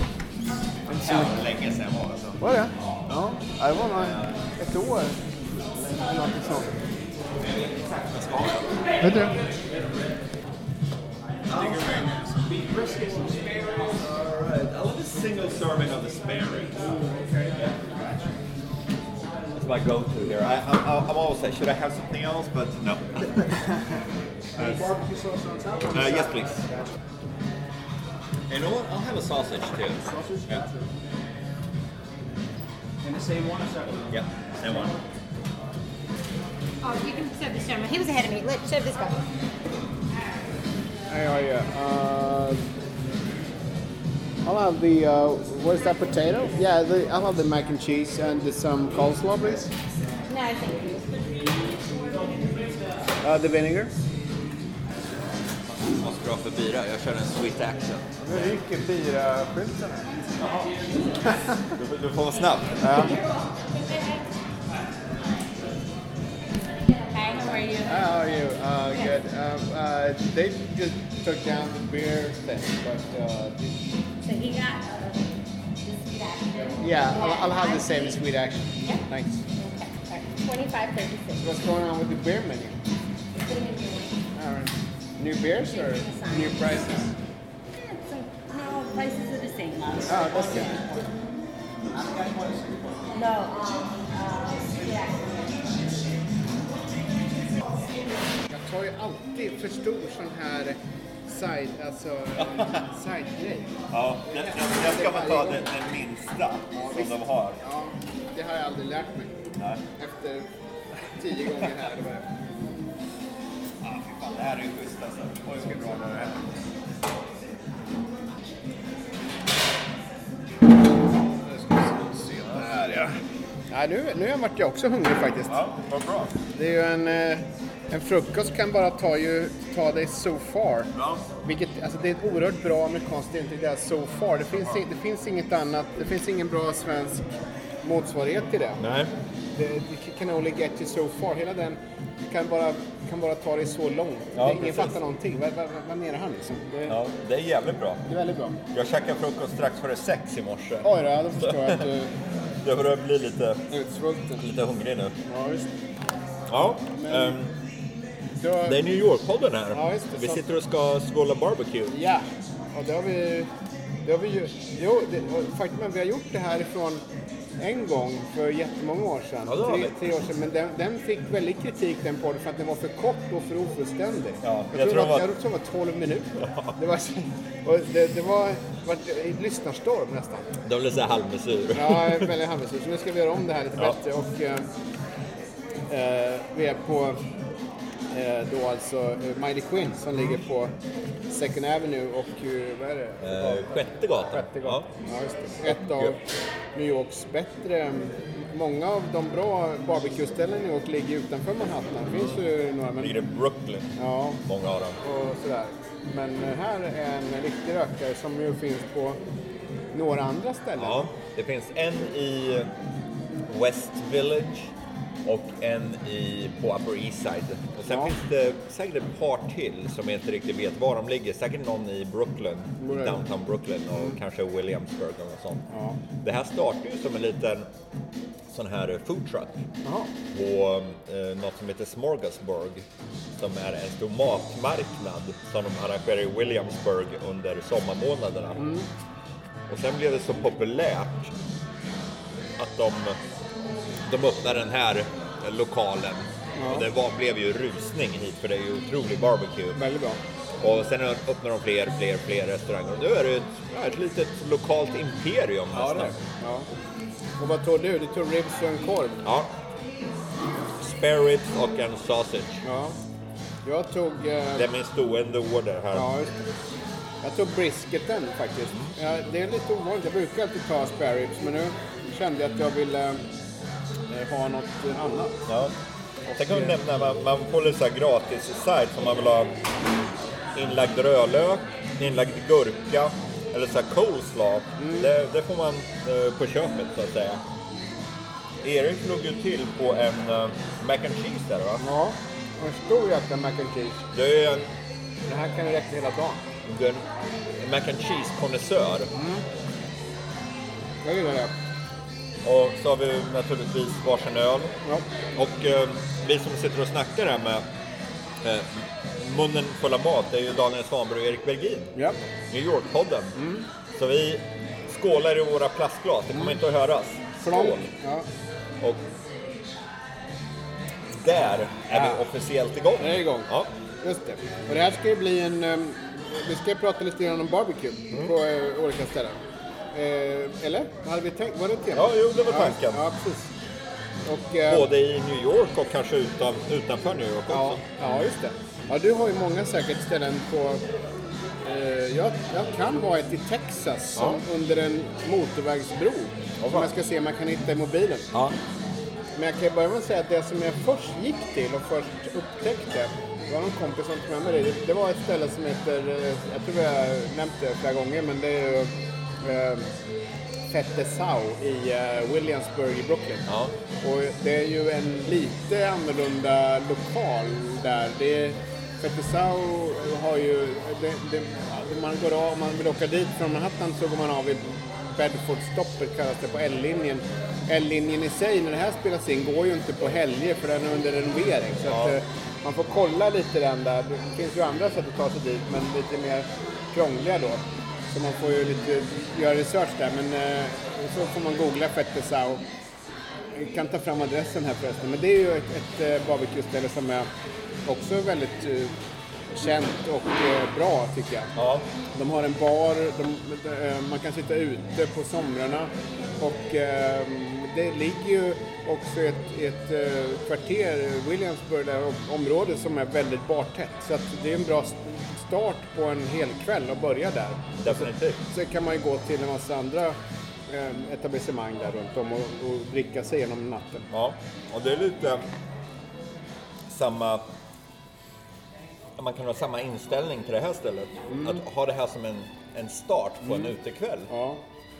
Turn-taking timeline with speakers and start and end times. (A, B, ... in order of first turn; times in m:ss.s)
0:00.8-0:02.4 A
0:02.4-0:05.2 B
0:03.8-0:04.4 A
0:06.0-0:06.7 B
0:07.4-0:08.8 A
0:09.0-0:09.4 B
0:11.5-0:12.1 A
0:11.7-0:13.7 C
0:13.7-0:16.9 A
0:19.5-0:23.6 A
0:24.6-0:25.0 C
0:24.6-0:26.0 B
0:25.9-0:26.6 A
0:28.5-0:30.6 A
0:30.1-0:30.8 B
0:33.0-0:34.1 C
0:34.1-0:34.9 A
0:36.8-0:39.2 D
0:41.1-0:42.6 B
0:44.4-0:49.7 B
0:50.3-0:52.0 D
0:53.2-0:53.9 B
0:55.8-0:58.5 A
0:58.2-1:00.1 B
1:00.3-1:00.6 D
1:01.7-1:03.1 A
1:02.7-1:04.2 D
1:02.8-1:03.1 B
1:06.5-1:08.3 D
1:07.8-1:13.7 B
1:14.2-1:18.2 D
1:16.8-1:19.4 B
1:19.5-1:21.4 D
1:21.4-1:22.8 B
1:23.3-1:24.2 D
1:24.4-1:27.1 B
1:25.6-1:26.8 D
1:27.7-1:30.8 D
1:30.1-1:30.8 B
1:30.1-1:31.0 C
1:31.9-1:33.2 C
1:33.1-1:35.8 D
1:38.5-1:43.8 B
1:42.4-1:42.7 A
1:43.9-1:47.6 A
1:44.3-1:45.6 B
1:46.8-1:49.4 B
1:50.0-1:50.5 B
1:51.1-1:52.3 B
1:53.8-1:56.5 A
2:02.2-2:02.8 A
2:02.6-2:03.1 B
2:03.7-2:05.6 B
2:05.5-2:06.3 A
2:06.4-2:17.3 B
2:10.9-2:11.2 A
2:17.8-2:18.8 B
2:18.8-2:19.1 A
2:19.5-2:27.0 B
2:24.3-2:24.9 A
2:26.9-2:28.0 A
2:28.1-2:28.6 B
2:28.7-2:31.8 A
2:30.8-2:32.1 B
2:32.6-2:33.7 A
2:33.7-2:34.4 B
2:34.4-2:35.1 A
2:35.2-2:35.7 B
2:36.5-2:37.5 A
2:36.9-2:37.3 B
2:38.4-2:38.8 B
2:38.6-2:41.9 A
2:39.7-2:40.4 B
2:41.9-2:43.5 B
2:44.0-2:47.0 B
2:47.6-3:00.5 B
2:49.5-2:49.9 A
2:54.4-2:55.3 A
2:56.4-2:56.7 A
3:00.6-3:02.3 A
3:01.7-3:04.6 B
3:05.9-3:07.2 B
3:08.1-3:10.7 B
3:11.3-3:16.2 B
3:13.2-3:14.9 A
3:15.7-3:16.1 A
3:16.7-3:23.2 B
3:23.0-3:23.9 A
3:24.0-3:24.4 B
3:24.4-3:25.0 A
3:25.0-3:29.2 B
3:29.9-3:31.1 B
3:30.8-3:32.7 A
3:33.5-3:34.7 A
3:35.2-3:45.6 A
3:37.9-3:38.1 B
3:42.8-3:43.2 B
3:45.7-3:46.0 B
3:46.2-3:47.7 A
3:48.5-3:49.6 A
3:49.8-3:50.1 B
3:50.3-3:52.8 A
3:53.4-3:58.6 A
3:58.6-3:58.9 B
3:59.7-4:01.3 A
4:02.6-4:03.2 A
4:04.0-4:09.8 A
4:06.6-4:06.8 B
4:09.7-4:10.2 B
4:10.6-4:16.1 A
4:15.7-4:16.7 B
4:17.4-4:19.2 B
4:19.2-4:19.5 A
4:20.8-4:22.6 A
4:22.6-4:23.0 B
4:23.6-4:24.7 B
4:24.6-4:26.3 A
4:25.9-4:26.4 B
4:27.2-4:33.2 B
4:34.1-4:35.4 B
4:35.5-4:35.7 A
4:36.3-4:36.7 B
4:36.3-4:39.5 A
4:40.5-4:47.4 A
4:44.8-4:45.1 B
4:48.6-4:51.8 A
4:51.8-4:54.0 B
4:54.1-4:54.7 A
4:55.3-4:56.4 B
4:56.6-4:59.1 A
4:59.1-4:59.4 B
5:01.0-5:01.5 B
5:02.4-5:04.7 A
5:05.3-5:07.6 A
5:08.4-5:11.9 A
5:11.9-5:12.2 B
5:12.5-5:13.4 A
5:13.3-5:13.6 B
5:13.9-5:17.8 A
5:17.4-5:18.2 B
5:21.2-5:23.7 A
5:21.9-5:22.2 B
5:23.0-5:23.5 B
5:24.0-5:29.4 B
5:29.9-5:33.5 B
5:31.9-5:33.0 A
5:34.2-5:34.9 B
5:34.7-5:37.8 A
5:37.5-5:40.8 B
5:41.6-5:48.3 B
5:46.6-5:46.9 A
5:49.3-5:59.9 B
6:00.7-6:03.4 B
6:03.5-6:03.7 A
6:04.0-6:32.6 B
6:21.9-6:22.2 A
6:33.5-6:37.3 B
6:37.8-6:38.9 B
6:39.5-6:41.5 B
6:41.6-6:41.8 A
6:42.1-7:00.2 B
6:57.8-6:58.4 A
7:00.7-7:04.1 B
7:04.1-7:05.4 A
7:06.9-7:07.5 A
7:09.2-7:14.3 A
7:11.3-7:11.6 B
7:13.4-7:13.7 B
7:14.3-7:14.6 B